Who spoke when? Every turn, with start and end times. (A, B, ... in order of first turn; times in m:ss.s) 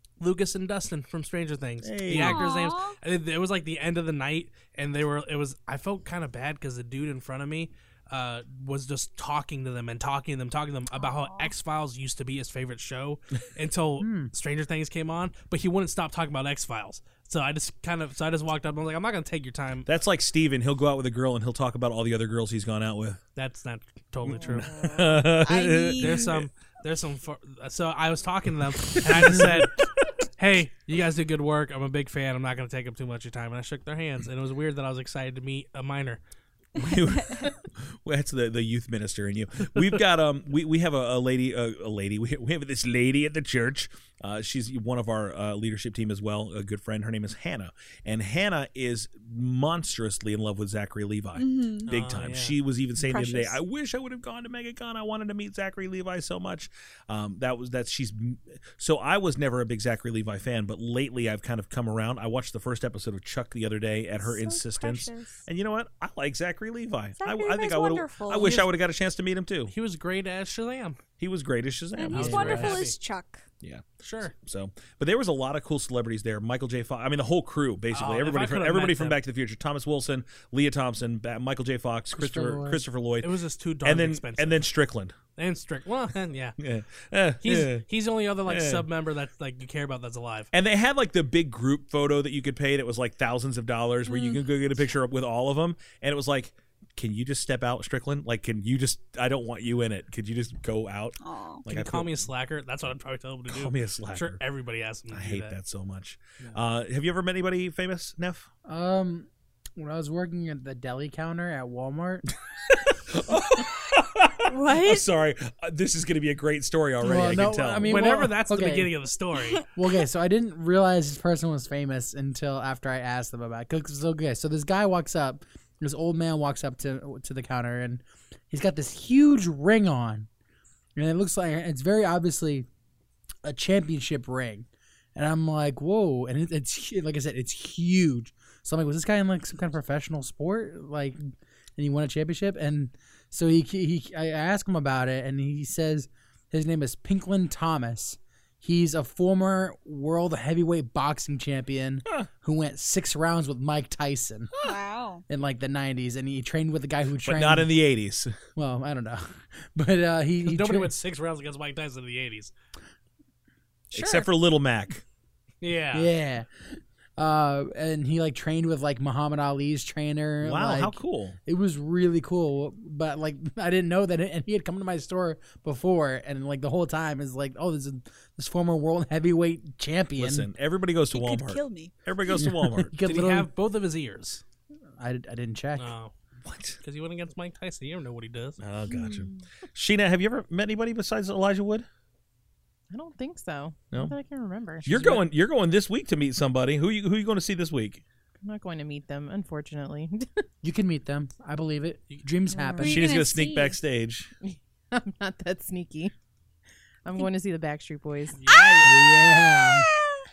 0:00.2-0:19.9 A
0:01.8-0:02.4 B
0:02.1-0:03.0 C
0:10.9-0:11.5 C
0:14.0-0:14.3 D
0:19.8-0:23.2 B
0:23.4-0:24.7 A
0:24.2-0:26.5 B
0:24.6-0:26.3 C
0:26.0-0:36.2 A
0:28.9-0:29.6 B
0:36.8-1:09.7 B
0:36.9-0:37.5 C
0:51.4-0:51.9 C
0:51.9-0:52.6 A
0:53.0-0:53.6 C
1:04.2-1:05.4 C
1:07.2-1:08.7 C
1:09.7-1:11.0 A
1:11.2-1:12.8 B
1:12.0-1:13.4 C
1:12.1-1:12.9 A
1:12.2-1:12.7 D
1:13.6-1:23.3 B
1:14.0-1:14.3 A
1:17.9-1:19.2 A
1:22.2-1:22.8 D
1:23.2-1:24.6 A
1:23.8-1:25.2 B
1:25.4-1:26.6 A
1:26.6-1:27.8 B
1:27.4-1:30.5 A
1:28.4-1:28.8 B
1:30.5-1:42.3 B
1:34.0-1:34.4 C
1:41.2-1:41.6 C
1:41.7-1:45.6 A
1:43.5-1:44.4 B
1:45.1-1:48.5 B
1:48.6-1:52.2 D
1:52.7-1:58.1 B
1:54.4-1:55.1 C
1:57.0-1:58.9 D
1:57.8-1:59.6 A
1:59.7-2:10.3 D
2:11.0-2:12.7 D
2:13.4-2:34.5 D
2:34.6-2:35.2 C
2:35.3-2:37.7 D
2:37.2-2:38.4 B
2:38.6-2:40.9 D
2:40.4-2:42.5 A
2:43.9-2:45.0 B
2:45.6-2:46.1 A
2:45.9-3:00.5 D
2:50.4-2:51.4 B
3:00.2-3:02.9 B
3:01.1-3:01.9 C
3:02.3-3:03.5 D
3:03.0-3:04.4 A
3:05.0-3:05.9 D
3:05.8-3:06.1 A
3:06.4-3:06.8 B
3:06.8-3:08.6 A
3:08.6-3:11.8 B
3:08.9-3:09.4 C
3:12.9-3:15.1 E
3:14.8-3:18.0 B
3:18.4-3:20.4 E
3:20.6-3:23.0 D
3:22.5-3:22.9 E
3:22.8-3:23.8 C
3:22.8-3:24.3 B
3:24.5-3:26.1 E
3:27.0-3:28.4 E
3:28.4-3:28.9 A
3:28.5-3:28.9 C
3:28.8-3:29.9 D